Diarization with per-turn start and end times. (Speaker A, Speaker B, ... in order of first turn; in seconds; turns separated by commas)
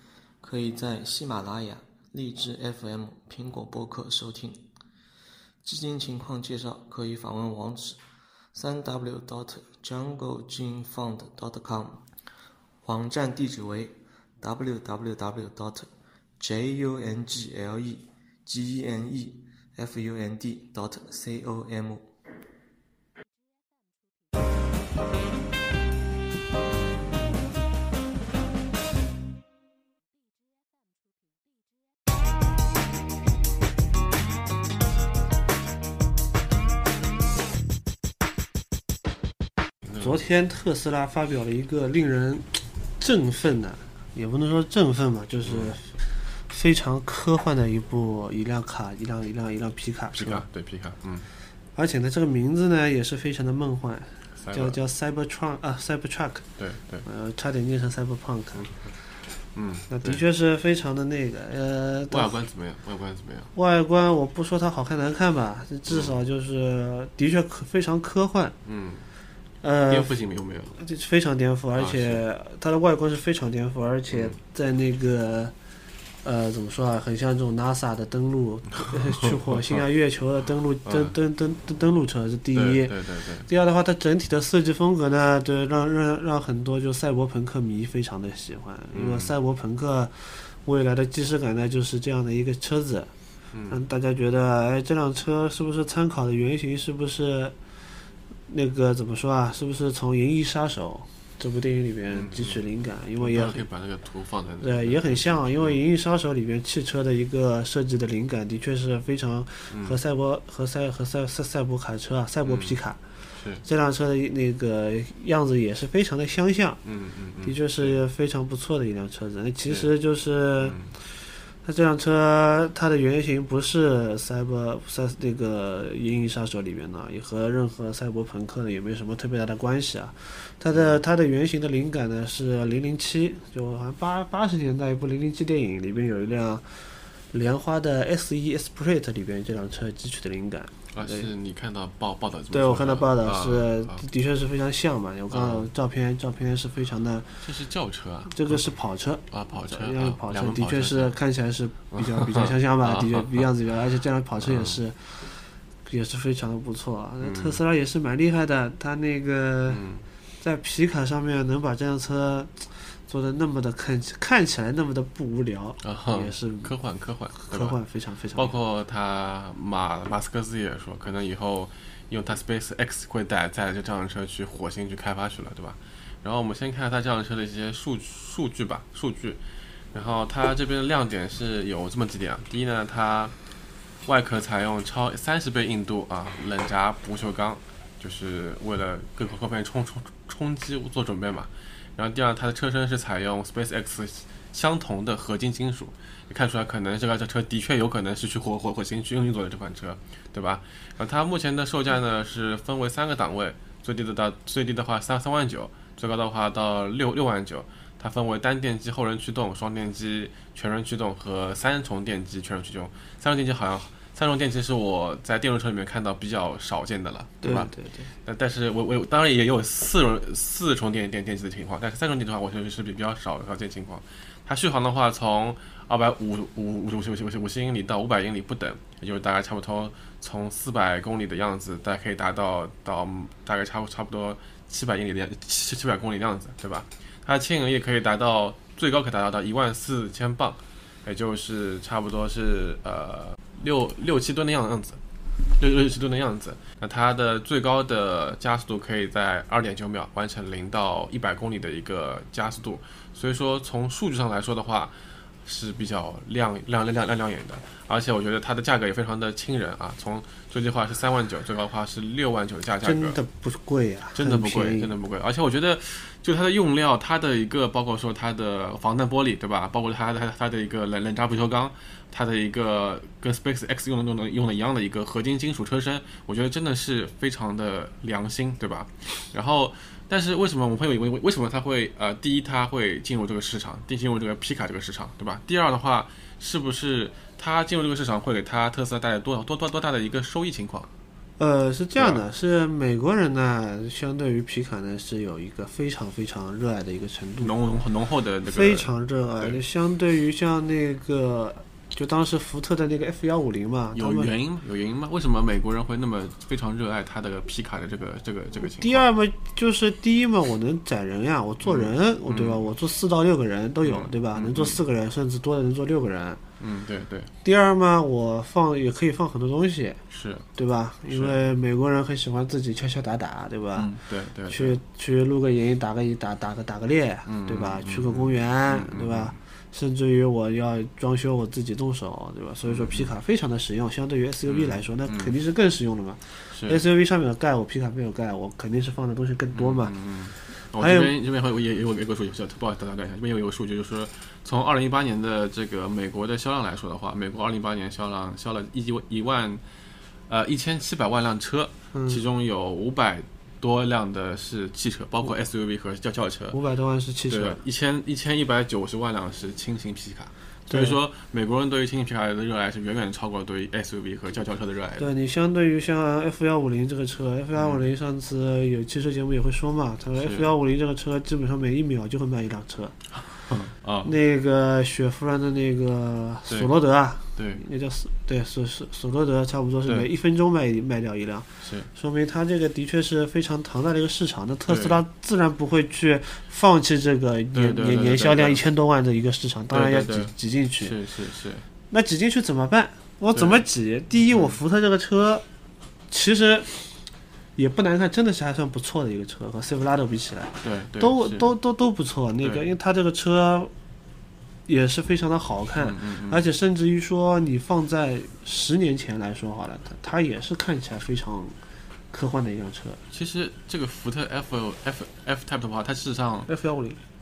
Speaker A: 0.4-4.6, Speaker A: 5.6-8.0, Speaker A: 8.6-12.0, Speaker A: 12.8-15.9, Speaker A: 16.4-22.1, Speaker B: 40.0-50.5, Speaker C: 45.4-45.8, Speaker C: 50.1-51.3, Speaker B: 51.8-56.5, Speaker C: 54.4-54.8, Speaker C: 56.6-57.0, Speaker B: 57.0-58.9, Speaker C: 59.5-60.2, Speaker B: 59.9-62.4, Speaker C: 62.1-63.5, Speaker B: 63.5-68.6, Speaker C: 65.9-66.2, Speaker C: 68.6-69.1, Speaker B: 69.6-70.2, Speaker C: 69.9-70.8, Speaker B: 70.7-75.5, Speaker C: 71.8-72.2, Speaker C: 74.1-74.4, Speaker B: 76.2-93.1, Speaker C: 78.8-79.3, Speaker C: 80.8-81.1, Speaker C: 82.5-83.5, Speaker C: 88.9-89.3, Speaker C: 93.5-93.8, Speaker B: 93.7-97.5, Speaker B: 98.5-103.6, Speaker C: 102.1-102.6, Speaker C: 103.2-105.8, Speaker B: 104.6-113.0, Speaker C: 109.7-110.0, Speaker C: 112.4-112.8, Speaker C: 113.3-113.6, Speaker B: 113.6-116.8, Speaker C: 116.8-118.0, Speaker B: 117.4-121.0, Speaker C: 120.6-121.0, Speaker B: 121.5-141.3, Speaker C: 130.7-131.0, Speaker C: 140.9-144.0, Speaker B: 142.5-147.4, Speaker C: 145.3-145.7, Speaker C: 147.4-148.7, Speaker B: 148.3-159.8, Speaker C: 149.3-151.1, Speaker C: 151.9-153.5, Speaker C: 154.4-154.8, Speaker C: 157.2-157.6, Speaker C: 159.7-160.1, Speaker B: 160.4-166.7, Speaker C: 165.8-167.8, Speaker B: 167.3-168.5, Speaker C: 168.3-179.4, Speaker C: 179.9-183.3, Speaker C: 184.1-217.7, Speaker B: 217.4-218.1, Speaker C: 218.2-245.0, Speaker C: 245.6-254.9, Speaker C: 255.4-263.2, Speaker B: 262.8-264.9, Speaker C: 264.1-290.9, Speaker B: 291.4-297.6, Speaker C: 291.9-292.2, Speaker C: 297.4-299.6, Speaker B: 298.4-304.3, Speaker C: 303.9-309.1, Speaker B: 308.6-316.4, Speaker C: 311.6-312.7, Speaker C: 313.8-314.8, Speaker C: 316.6-317.3, Speaker B: 317.4-320.0, Speaker C: 320.1-320.5, Speaker B: 320.6-323.9, Speaker C: 321.1-321.4, Speaker C: 323.8-324.8, Speaker B: 324.5-339.9, Speaker C: 327.3-329.4, Speaker C: 332.6-333.1, Speaker C: 334.4-335.3, Speaker C: 336.5-336.8, Speaker C: 339.5-349.6, Speaker B: 340.8-341.1, Speaker C: 350.3-356.6, Speaker B: 351.9-352.2, Speaker B: 356.5-357.6, Speaker C: 357.3-365.1, Speaker B: 360.7-361.0, Speaker B: 365.0-372.9, Speaker C: 367.6-367.9, Speaker C: 370.1-370.5, Speaker C: 373.1-374.1, Speaker B: 374.1-391.0, Speaker C: 377.4-377.6, Speaker C: 381.6-381.9, Speaker C: 384.7-385.0, Speaker C: 387.5-388.6, Speaker C: 389.7-391.6, Speaker B: 391.9-395.4, Speaker C: 393.3-393.6, Speaker C: 394.2-394.6, Speaker B: 396.1-397.0, Speaker B: 397.6-403.7, Speaker C: 400.6-401.6, Speaker C: 402.4-402.7, Speaker B: 404.6-411.6, Speaker C: 405.8-406.5, Speaker B: 412.1-413.0, Speaker C: 413.1-416.5, Speaker B: 416.5-417.0